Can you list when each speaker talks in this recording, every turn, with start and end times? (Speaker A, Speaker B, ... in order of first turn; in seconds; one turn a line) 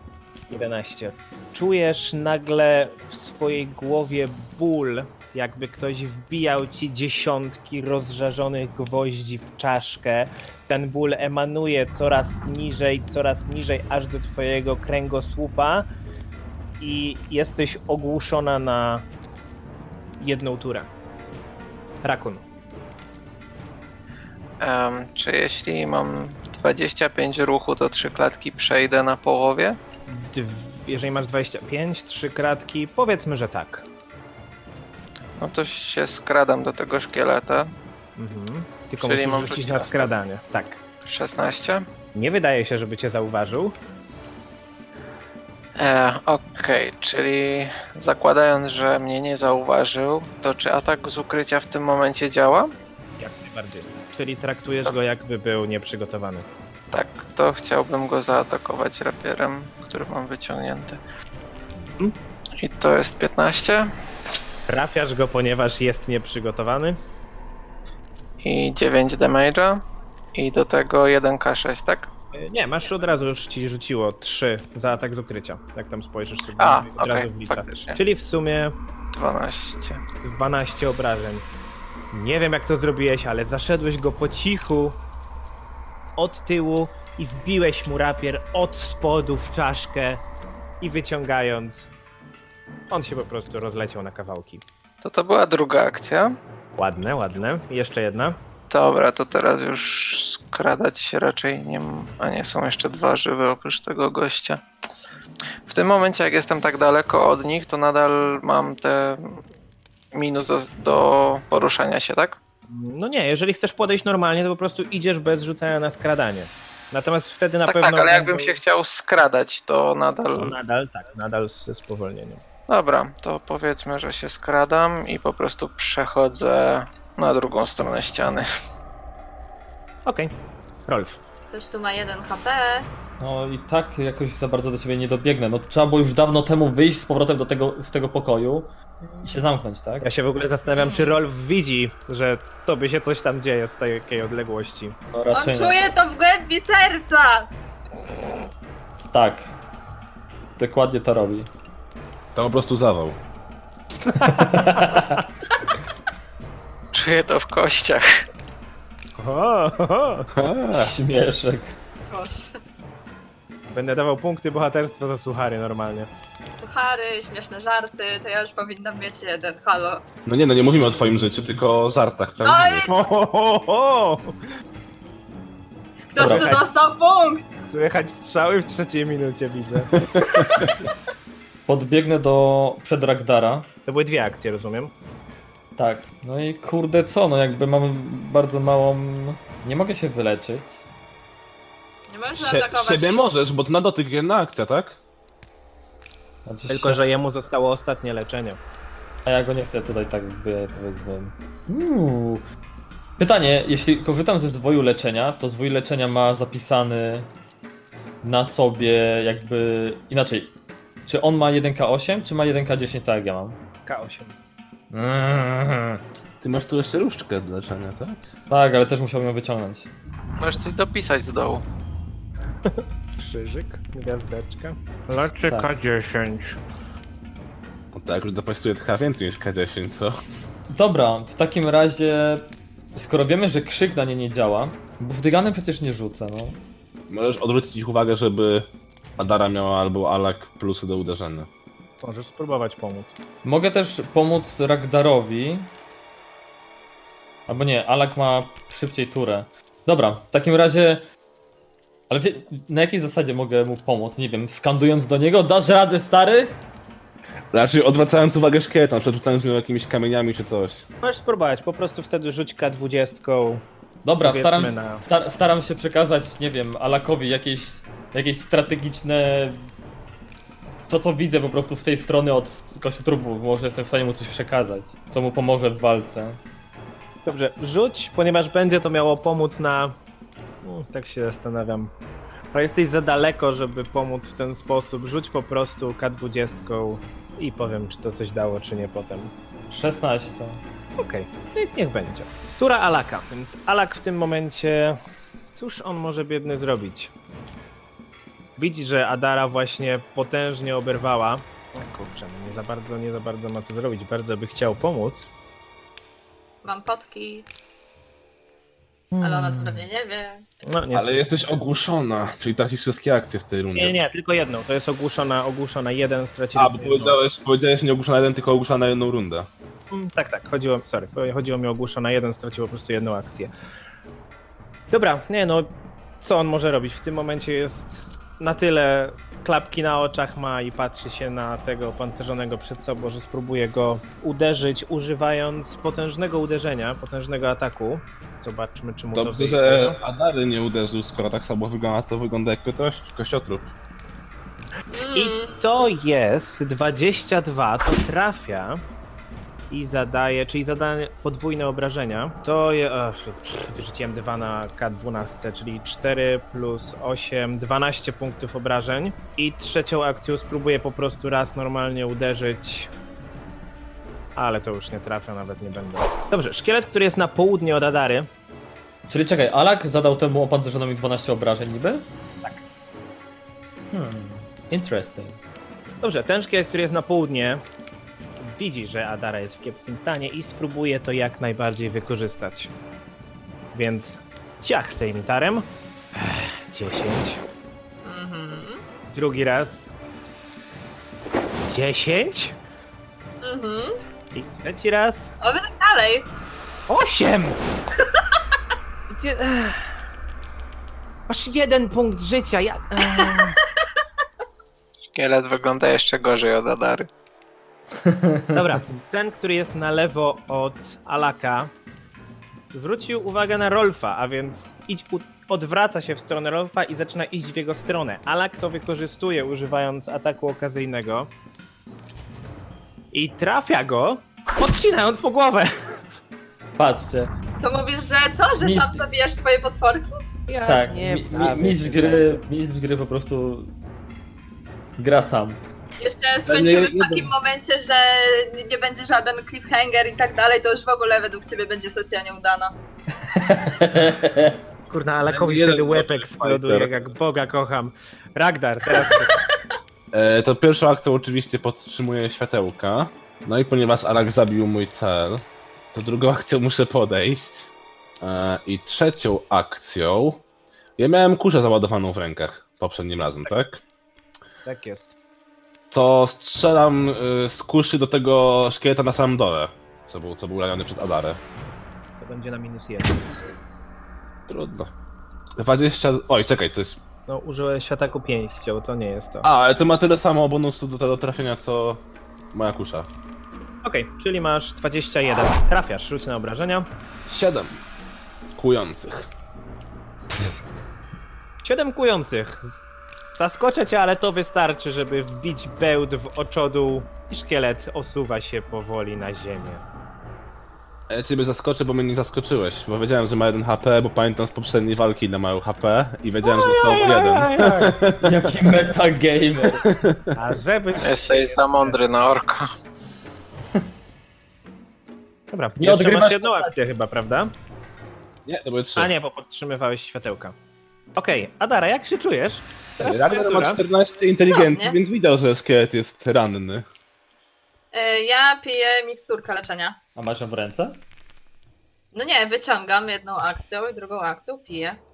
Speaker A: 0.5-15.9
Speaker A: 16.8-19.1
Speaker A: 20.2-20.9
Speaker A: 22.0-22.4
Speaker B: 24.6-29.8
Speaker A: 30.1-33.9
Speaker B: 35.4-37.7
Speaker A: 38.2-40.8
Speaker B: 39.0-40.1
Speaker B: 41.0-41.9
Speaker A: 42.1-43.7
Speaker B: 45.8-52.7
Speaker A: 53.2-56.5
Speaker B: 56.9-61.0
Speaker B: 62.6-63.9
Speaker A: 64.7-67.0
Speaker B: 68.4-69.8
Speaker B: 70.3-72.1
Speaker A: 72.3-78.8
Speaker B: 76.6-78.0
Speaker B: 79.1-80.0
Speaker A: 80.2-81.5
Speaker A: 82.1-85.0
Speaker A: 86.2-90.2
Speaker A: 90.8-91.9
Speaker A: 92.9-94.6
Speaker B: 95.0-96.4
Speaker A: 96.8-98.4
Speaker B: 98.7-104.6
Speaker B: 105.7-109.4
Speaker B: 110.1-112.4
Speaker A: 112.7-118.6
Speaker B: 117.7-120.5
Speaker A: 120.3-122.4
Speaker B: 122.7-128.5
Speaker A: 130.1-130.3
Speaker A: 130.9-131.2
Speaker C: 131.5-132.9
Speaker D: 133.2-138.7
Speaker C: 139.0-139.3
Speaker D: 139.2-140.1
Speaker A: 140.0-145.0
Speaker C: 140.8-141.1
Speaker D: 145.1-145.8
Speaker C: 145.3-147.5
Speaker D: 149.1-149.5
Speaker D: 150.6-151.5
Speaker E: 152.3-153.2
Speaker A: 154.0-155.0
Speaker D: 154.2-155.2
Speaker B: 156.9-158.2
Speaker A: 159.2-160.3
Speaker E: 160.3-160.9
Speaker D: 160.7-161.8
Speaker C: 162.1-162.6
Speaker A: 163.7-166.1
Speaker C: 166.5-170.0
Speaker E: 170.2-172.9
Speaker C: 172.4-173.1
Speaker A: 172.9-174.3
Speaker C: 176.1-177.6
Speaker D: 176.2-176.6
Speaker A: 176.2-176.6
Speaker A: 177.7-179.9
Speaker E: 180.0-180.4
Speaker D: 181.7-183.7
Speaker A: 183.8-184.9
Speaker D: 185.8-190.8
Speaker C: 192.1-193.3
Speaker E: 192.4-195.0
Speaker D: 196.4-197.0
Speaker A: 196.7-198.6
Speaker D: 199.2-202.4
Speaker D: 203.2-207.3
Speaker D: 208.2-210.5
Speaker D: 211.1-213.6
Speaker A: 213.8-214.3
Speaker D: 214.9-216.0
Speaker E: 216.4-218.2
Speaker D: 218.5-219.9
Speaker B: 220.4-221.6
Speaker A: 222.6-226.6
Speaker E: 227.9-230.2
Speaker D: 230.7-236.6
Speaker E: 237.1-238.7
Speaker E: 239.2-241.5
Speaker A: 242.0-243.2
Speaker D: 243.4-245.7
Speaker D: 247.5-251.0
Speaker D: 252.1-256.5
Speaker E: 257.5-260.9
Speaker A: 261.0-263.6
Speaker D: 264.0-269.7
Speaker A: 264.2-265.1
Speaker D: 270.9-276.4
Speaker A: 277.2-279.9
Speaker A: 280.6-281.9
Speaker A: 282.5-289.3
Speaker D: 289.7-290.6
Speaker A: 291.0-295.0
Speaker A: 295.5-297.1
Speaker A: 298.6-305.3
Speaker C: 306.6-307.5
Speaker A: 309.1-309.8
Speaker C: 309.2-310.4
Speaker A: 310.6-311.3
Speaker E: 310.9-314.0
Speaker A: 313.8-317.2
Speaker E: 316.5-319.5
Speaker A: 319.9-323.5
Speaker A: 324.9-340.0
Speaker E: 339.1-343.7
Speaker C: 344.9-345.6
Speaker A: 345.1-348.8
Speaker A: 349.7-362.9
Speaker A: 364.4-368.3
Speaker D: 369.1-372.1
Speaker D: 373.9-375.4
Speaker A: 376.0-377.6
Speaker A: 378.4-382.7
Speaker A: 383.7-387.4
Speaker C: 388.0-388.8
Speaker A: 389.1-389.9
Speaker A: 391.6-392.6
Speaker C: 393.4-394.0
Speaker A: 394.3-395.3
Speaker C: 395.4-396.3
Speaker A: 396.9-397.6
Speaker A: 399.1-400.0
Speaker A: 401.3-403.6
Speaker B: 405.1-407.1
Speaker D: 408.0-408.6
Speaker A: 408.5-411.7
Speaker A: 412.7-421.3
Speaker A: 423.1-426.0
Speaker D: 426.8-427.3
Speaker C: 427.6-430.2
Speaker D: 428.6-429.0
Speaker A: 430.5-432.4
Speaker D: 430.6-433.7
Speaker D: 435.0-435.6
Speaker C: 436.0-442.7
Speaker E: 436.4-437.3
Speaker D: 443.2-444.6
Speaker A: 444.9-449.4
Speaker E: 445.3-447.0
Speaker E: 450.1-460.4
Speaker E: 461.0-463.8
Speaker A: 464.6-465.1
Speaker E: 465.9-471.4
Speaker A: 472.2-473.4
Speaker E: 474.5-474.9
Speaker E: 475.6-477.0
Speaker A: 477.3-479.5
Speaker E: 479.4-483.1
Speaker A: 483.8-486.9
Speaker E: 487.3-487.8
Speaker E: 488.5-489.3
Speaker A: 491.6-499.8
Speaker E: 501.1-508.6
Speaker A: 506.4-508.0
Speaker D: 508.2-509.9
Speaker E: 509.6-510.4
Speaker A: 510.3-512.3
Speaker B: 511.0-512.7
Speaker A: 515.5-517.5
Speaker D: 515.8-516.8
Speaker E: 518.5-519.1
Speaker A: 519.0-520.5
Speaker A: 521.1-523.8
Speaker E: 523.0-526.9
Speaker C: 524.5-525.0
Speaker C: 527.9-530.0
Speaker D: 530.1-531.0
Speaker C: 532.1-535.0